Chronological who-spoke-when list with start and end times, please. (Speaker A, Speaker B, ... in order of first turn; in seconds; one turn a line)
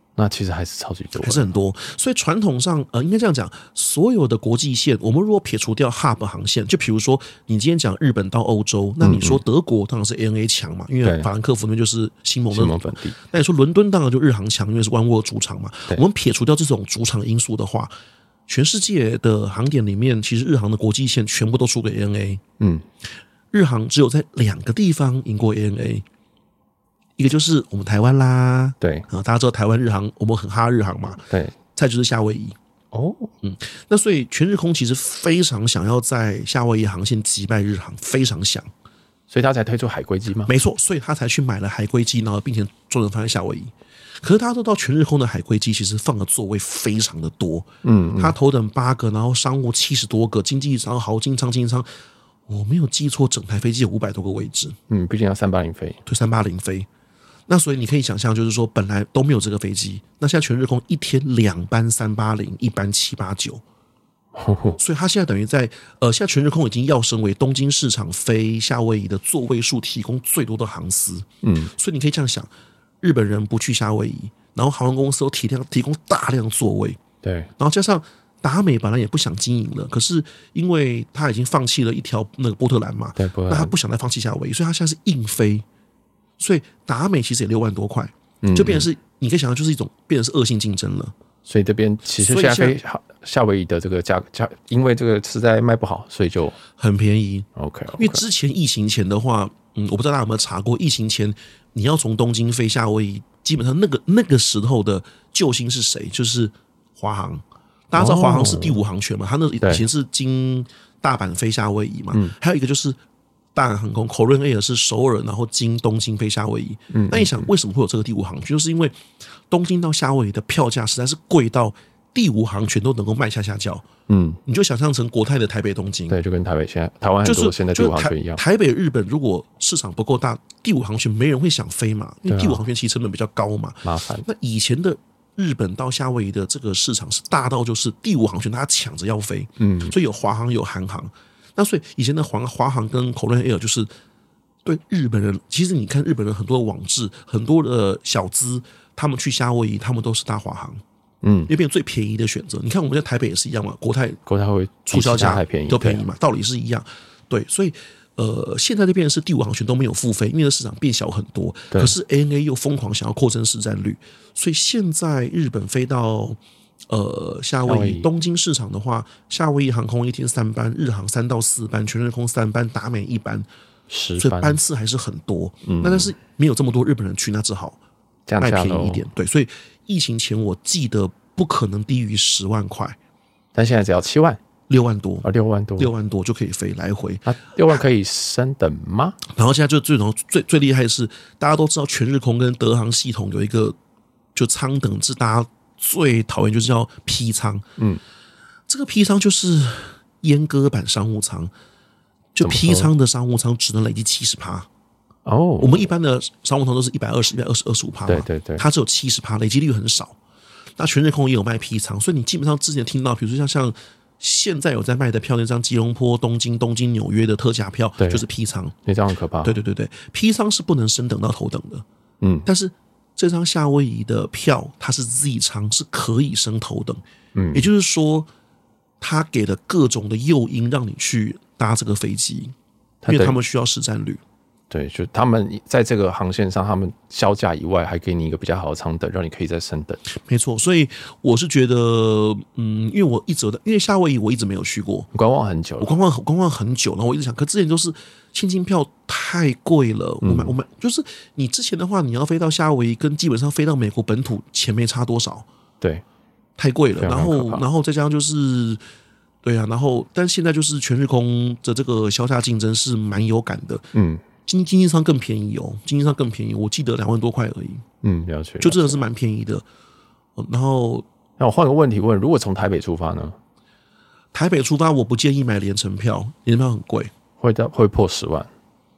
Speaker A: 0.1-1.5
Speaker B: 1.2-17.9
Speaker A: 9.0-9.4
Speaker A: 12.5-13.2
Speaker B: 18.5-22.4
Speaker A: 22.6-22.8
Speaker B: 23.5-26.0
Speaker B: 27.2-31.2
Speaker A: 28.8-29.1
Speaker A: 31.3-31.5
Speaker B: 31.7-32.5
Speaker A: 32.9-33.3
Speaker B: 33.4-38.7
Speaker A: 39.3-40.5
Speaker B: 40.5-47.7
Speaker A: 47.8-48.3
Speaker B: 48.2-51.9
Speaker B: 52.5-54.8
Speaker A: 54.9-56.0
Speaker B: 56.0-56.9
Speaker B: 57.5-63.6
Speaker A: 64.3-64.8
Speaker B: 64.8-72.5
Speaker A: 71.4-71.7
Speaker B: 73.0-77.0
Speaker A: 77.2-77.5
Speaker B: 77.6-85.6
Speaker A: 83.2-83.7
Speaker B: 86.4-91.1
Speaker A: 88.4-88.9
Speaker A: 91.5-96.6
Speaker B: 92.2-92.8
Speaker B: 96.8-113.0
Speaker A: 97.5-98.2
Speaker A: 108.0-108.8
Speaker B: 113.5-119.0
Speaker A: 116.9-117.5
Speaker B: 119.5-123.9
Speaker A: 124.1-124.4
Speaker B: 124.4-126.2
Speaker A: 126.1-128.4
Speaker B: 127.2-143.9
Speaker A: 132.3-132.6
Speaker A: 133.8-134.2
Speaker A: 139.6-139.9
Speaker B: 144.6-150.8
Speaker A: 151.2-151.5
Speaker B: 151.5-154.2
Speaker A: 154.2-156.0
Speaker B: 154.8-166.4
Speaker B: 166.9-173.5
Speaker A: 167.7-168.1
Speaker A: 173.9-174.6
Speaker B: 174.2-177.8
Speaker A: 175.6-176.1
Speaker A: 178.3-179.0
Speaker B: 178.4-183.0
Speaker A: 183.5-184.4
Speaker B: 184.7-185.2
Speaker A: 185.2-185.9
Speaker B: 185.8-187.2
Speaker A: 187.2-189.2
Speaker B: 189.3-193.8
Speaker B: 194.3-197.7
Speaker B: 198.7-201.5
Speaker B: 202.3-204.7
Speaker A: 202.4-202.9
Speaker A: 205.2-205.9
Speaker B: 205.6-210.2
Speaker A: 208.1-208.6
Speaker B: 210.8-218.7
Speaker A: 218.0-218.2
Speaker A: 218.8-219.6
Speaker B: 219.4-221.8
Speaker A: 222.2-222.4
Speaker B: 222.4-227.0
Speaker A: 227.3-227.7
Speaker B: 227.5-228.3
Speaker B: 229.0-232.5
Speaker A: 233.0-233.4
Speaker B: 233.1-234.2
Speaker A: 234.7-240.0
Speaker B: 240.1-245.1
Speaker A: 245.1-246.0
Speaker B: 245.8-255.4
Speaker A: 250.2-250.5
Speaker B: 256.6-258.8
Speaker A: 257.0-257.6
Speaker B: 259.4-263.9
Speaker A: 263.9-264.2
Speaker B: 264.4-267.8
Speaker A: 268.0-269.0
Speaker B: 268.6-269.6
Speaker B: 270.4-271.1
Speaker A: 271.4-273.4
Speaker B: 274.3-277.1
Speaker A: 277.4-278.5